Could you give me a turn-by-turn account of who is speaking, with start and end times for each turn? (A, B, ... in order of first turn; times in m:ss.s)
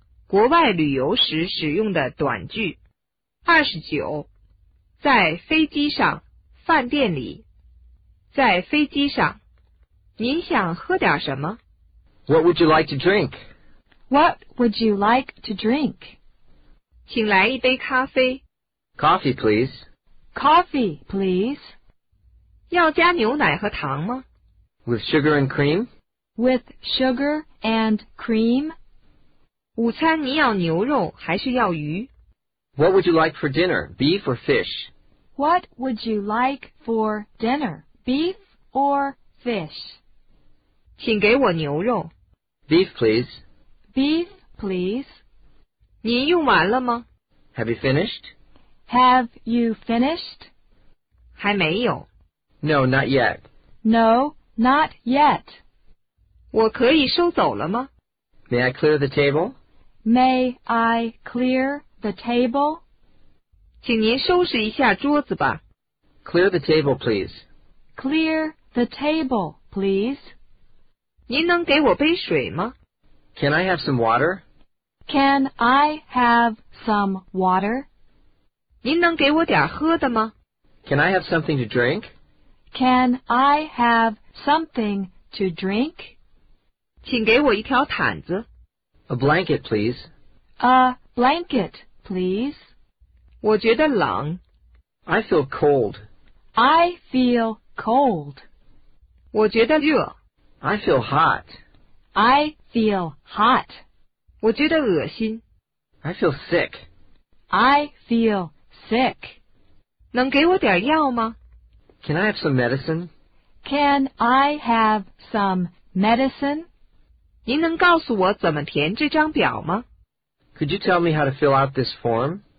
0:00.3-0:02.8 A
0:03.4-0:04.3 A
0:05.0-0:07.4 A
0:08.3-0:09.4 A
0:10.2-0:11.6 A
0:12.3-0:13.4 B
0:14.1-0:16.2 C
0:17.1-0:18.4 A
0:19.0-0:19.8 B
0:20.4-0:21.7 C
0:22.7-0:24.2 A
0:24.9-0:25.9 B
0:26.4-0:28.7 C
0:29.8-0:32.1 A
0:32.8-0:34.9 B
0:35.4-0:40.0 C
0:41.0-0:42.1 A
0:42.7-0:43.4 B
0:43.9-0:45.2 C
0:46.0-0:47.0 A
0:47.6-0:48.3 B
0:48.9-0:50.5 C
0:51.4-0:52.1 A
0:52.6-0:53.4 B
0:53.8-0:55.6 C
0:56.5-0:57.9 A
0:58.5-0:59.6 B
1:00.0-1:02.8 C
1:03.8-1:05.6 A
1:06.2-1:07.4 B
1:08.0-1:10.3 C
1:11.3-1:12.7 A
1:13.4-1:14.4 B
1:15.1-1:17.9 C
1:18.8-1:20.3 A
1:20.8-1:22.1 B
1:22.7-1:26.2 C
1:27.0-1:28.5 A
1:29.1-1:30.1 B
1:30.6-1:32.6 C
1:33.4-1:34.4 A
1:35.1-1:36.0 B
1:36.6-1:38.4 C
1:39.3-1:40.1 A
1:40.6-1:41.6 B
1:42.2-1:43.8 C
1:44.4-1:45.4 A
1:46.0-1:46.9 B
1:47.5-1:49.4 C
1:50.1-1:51.4 A
1:52.0-1:53.1 B
1:53.6-1:56.7 C
1:57.5-1:59.8 A
2:00.6-2:02.4 B